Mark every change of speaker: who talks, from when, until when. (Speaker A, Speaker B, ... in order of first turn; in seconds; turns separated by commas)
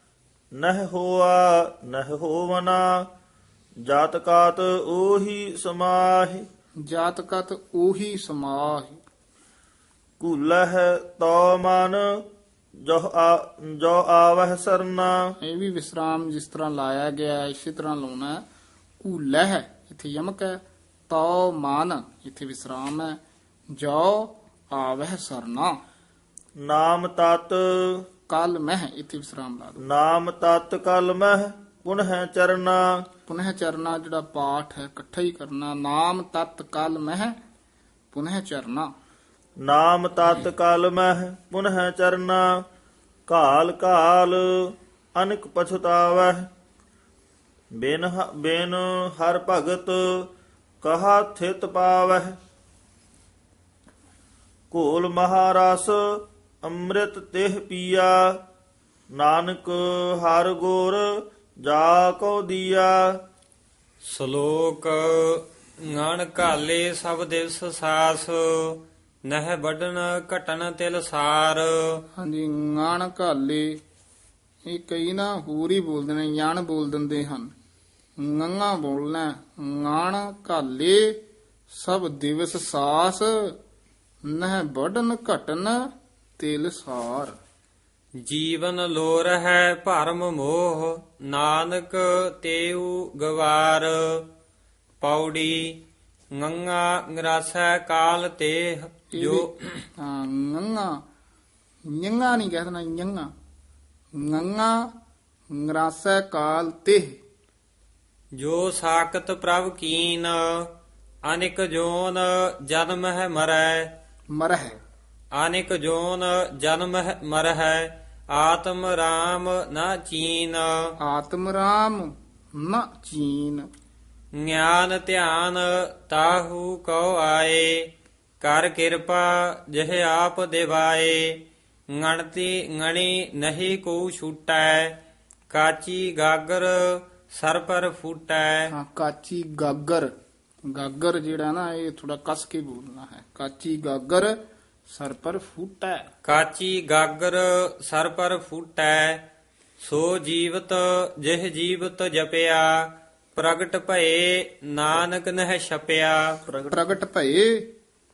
Speaker A: 0.6-2.8, Speaker A: 3.9-6.4, Speaker B: 6.8-9.0, Speaker A: 10.2-12.0, Speaker A: 12.8-15.1, Speaker B: 15.4-18.4, Speaker B: 19.0-23.2, Speaker B: 23.7-25.8, Speaker A: 26.6-27.6, Speaker B: 28.3-29.8, Speaker A: 29.9-32.9, Speaker B: 33.3-37.4, Speaker B: 38.1-38.9, Speaker A: 39.6-42.5, Speaker A: 43.3-44.4, Speaker A: 45.1-46.5, Speaker A: 47.8-50.3, Speaker A: 50.8-52.4, Speaker A: 54.7-56.0, Speaker A: 56.6-58.1, Speaker A: 59.1-61.0, Speaker A: 61.6-63.0, Speaker C: 64.0-72.0, Speaker B: 72.2-73.8, Speaker B: 74.7-77.5, Speaker B: 78.2-83.6, Speaker B: 84.2-87.3, Speaker C: 88.2-94.2, Speaker C: 95.0-95.7, Speaker C: 96.3-99.8, Speaker B: 99.1-101.0, Speaker B: 101.9-103.3, Speaker B: 104.2-104.9, Speaker B: 105.5-107.2, Speaker C: 108.4-110.7, Speaker C: 111.2-113.9, Speaker B: 114.3-114.8, Speaker C: 115.3-120.7, Speaker B: 121.0-123.7, Speaker C: 124.4-127.9, Speaker C: 128.4-135.0, Speaker C: 135.5-138.7, Speaker B: 138.7-140.1, Speaker B: 140.7-146.1, Speaker C: 146.2-149.2, Speaker C: 149.8-152.7, Speaker C: 153.3-156.4, Speaker A: 156.5-156.7, Speaker B: 156.7-157.7